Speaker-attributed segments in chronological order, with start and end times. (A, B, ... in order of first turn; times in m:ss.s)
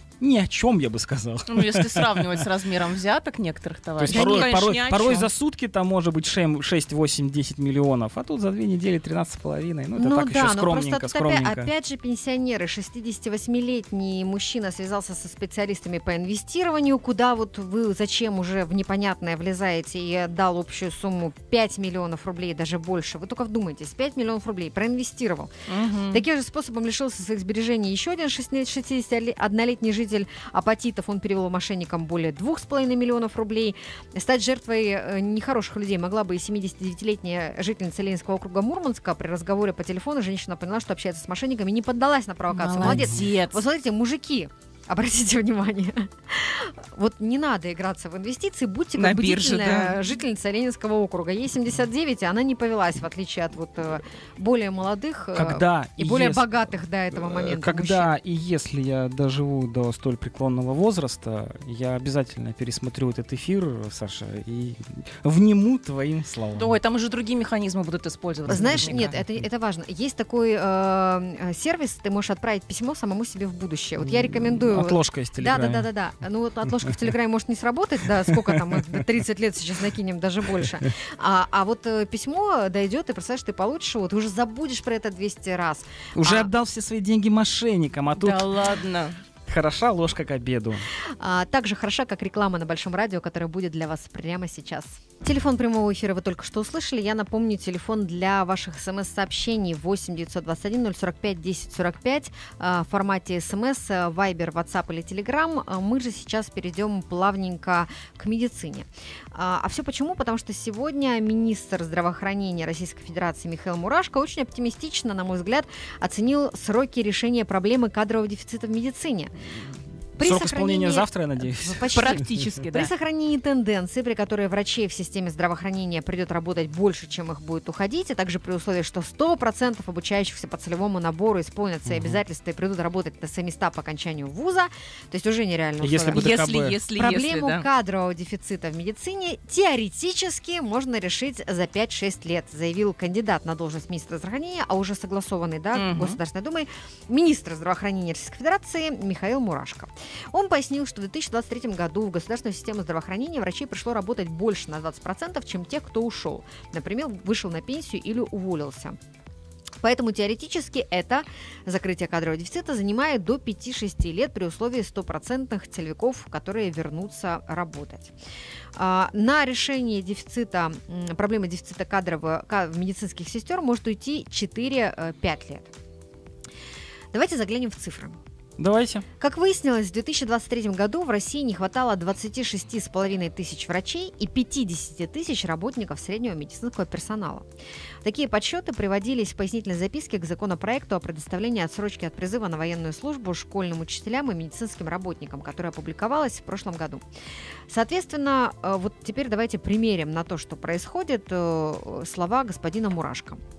0:00.2-0:02.4 A
0:01.5-0:05.3 B
0:04.0-0:11.7 A
0:04.1-0:04.5 C
0:09.9-0:25.5 C
0:25.7-0:26.2 B
0:26.1-0:58.1 C
0:42.5-0:43.6 B
0:42.8-0:43.2 A
0:49.0-0:50.0 B
0:55.3-0:56.5 A
0:57.1-1:06.7 A
1:06.6-1:09.1 B
1:08.5-1:26.5 C
1:08.7-1:09.2 A
1:14.0-1:15.9 A
1:26.1-1:28.5 A
1:28.2-1:29.2 B
1:29.5-1:30.8 A
1:31.2-1:59.4 C
2:00.2-2:16.4 C
2:00.2-2:02.4 A
2:01.9-2:02.9 B
2:11.9-2:12.2 A
2:15.8-2:16.8 A
2:16.1-2:17.6 B
2:16.9-2:39.0 C
2:25.7-2:26.2 B
2:39.8-2:48.1 C
2:48.8-2:55.7 C
2:57.1-2:58.2 C
2:58.6-2:59.0 A
2:59.2-3:07.4 C
3:08.0-3:17.0 C
3:17.7-3:23.4 C